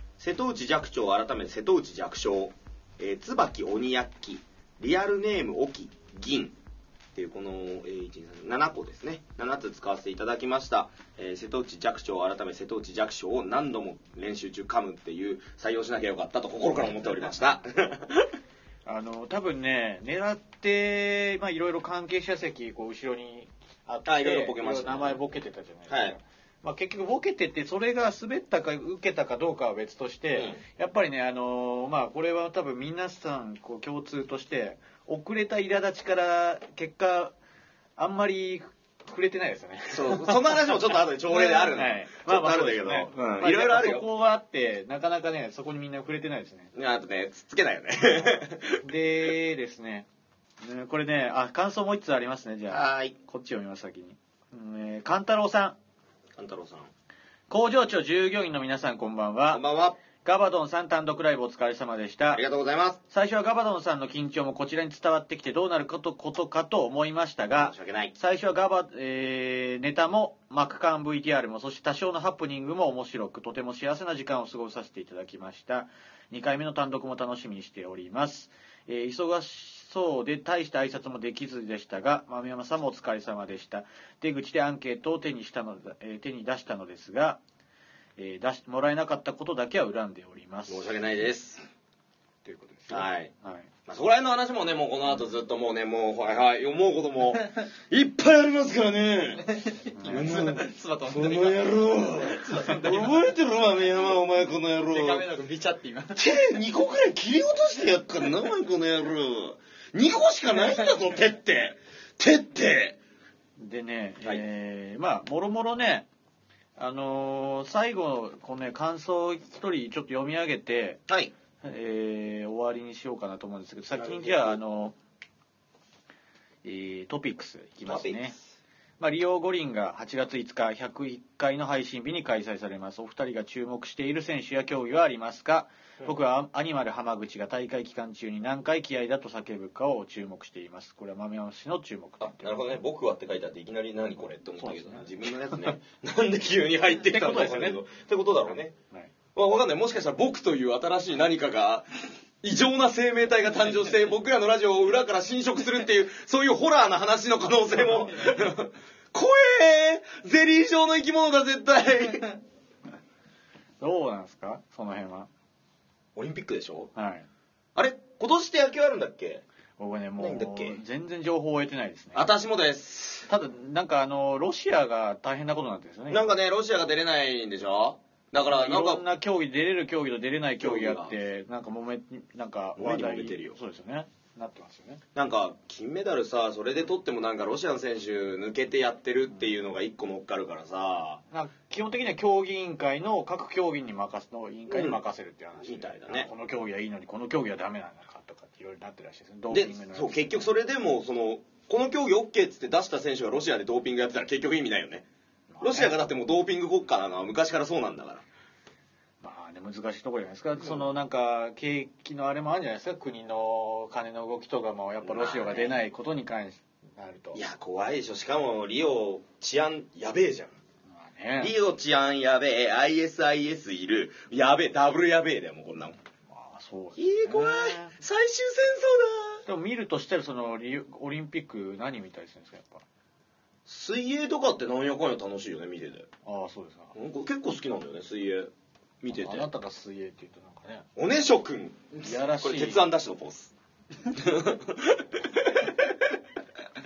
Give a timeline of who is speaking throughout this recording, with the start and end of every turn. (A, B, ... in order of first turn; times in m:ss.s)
0:00.2-0:06.6 A
0:07.2-0:18.3 A
0:18.9-0:37.4 B
0:24.1-0:25.2 A
0:25.9-0:26.2 A
0:38.0-0:46.7 B
0:39.9-0:44.1 A
0:46.8-0:48.8 A
0:48.8-0:50.1 B
0:50.6-0:55.8 B
0:52.7-0:53.2 A
0:56.4-0:56.9 A
0:57.5-0:59.6 B
0:59.5-1:00.0 A
1:00.2-1:02.4 B
1:02.3-1:03.0 A
1:03.1-1:27.4 B
1:07.6-1:08.1 A
1:28.2-1:30.9 B
1:30.7-1:31.6 A
1:32.4-1:33.7 B
1:32.9-1:33.3 A
1:33.9-1:39.5 A
1:39.6-1:43.2 C
1:40.0-1:40.2 B
1:40.0-1:45.3 A
1:44.8-1:46.2 C
1:46.2-1:53.0 A
1:53.6-1:56.1 B
1:56.8-2:01.0 B
2:01.6-2:05.0 B
2:03.9-2:04.6 A
2:06.6-2:08.4 B
2:07.9-2:08.5 A
2:09.0-2:22.8 B
2:22.2-2:28.7 A
2:24.6-2:25.1 B
2:27.0-2:27.8 B
2:29.4-2:31.9 A
2:32.4-2:42.4 A
2:38.1-2:38.4 B
2:43.8-2:45.3 B
2:46.2-2:46.9 A
2:47.0-2:47.3 B
2:47.8-2:49.4 A
2:49.8-2:52.3 B
2:50.2-2:50.8 A
2:52.1-2:53.3 A
2:53.3-2:56.3 B
2:56.1-2:59.0 A
2:58.4-3:05.0 B
3:00.6-3:01.2 A
3:02.8-3:03.6 A
3:05.2-3:11.2 A
3:11.3-3:20.5 B
3:14.7-3:15.0 A
3:15.6-3:16.3 A
3:19.5-3:25.1 A
3:25.5-3:26.0 B
3:25.6-3:28.2 A
3:29.2-3:37.4 B
3:35.0-3:35.8 A
3:37.3-3:40.6 A
3:40.9-3:41.6 B
3:41.4-3:46.0 A
3:46.3-3:48.0 B
3:47.0-3:49.4 A
3:49.5-3:52.8 B
3:53.7-3:56.1 A
3:56.2-3:56.9 B
3:56.9-3:59.5 A
3:59.1-4:00.9 B
4:01.0-4:03.5 A
4:02.0-4:02.9 B
4:04.1-4:05.9 A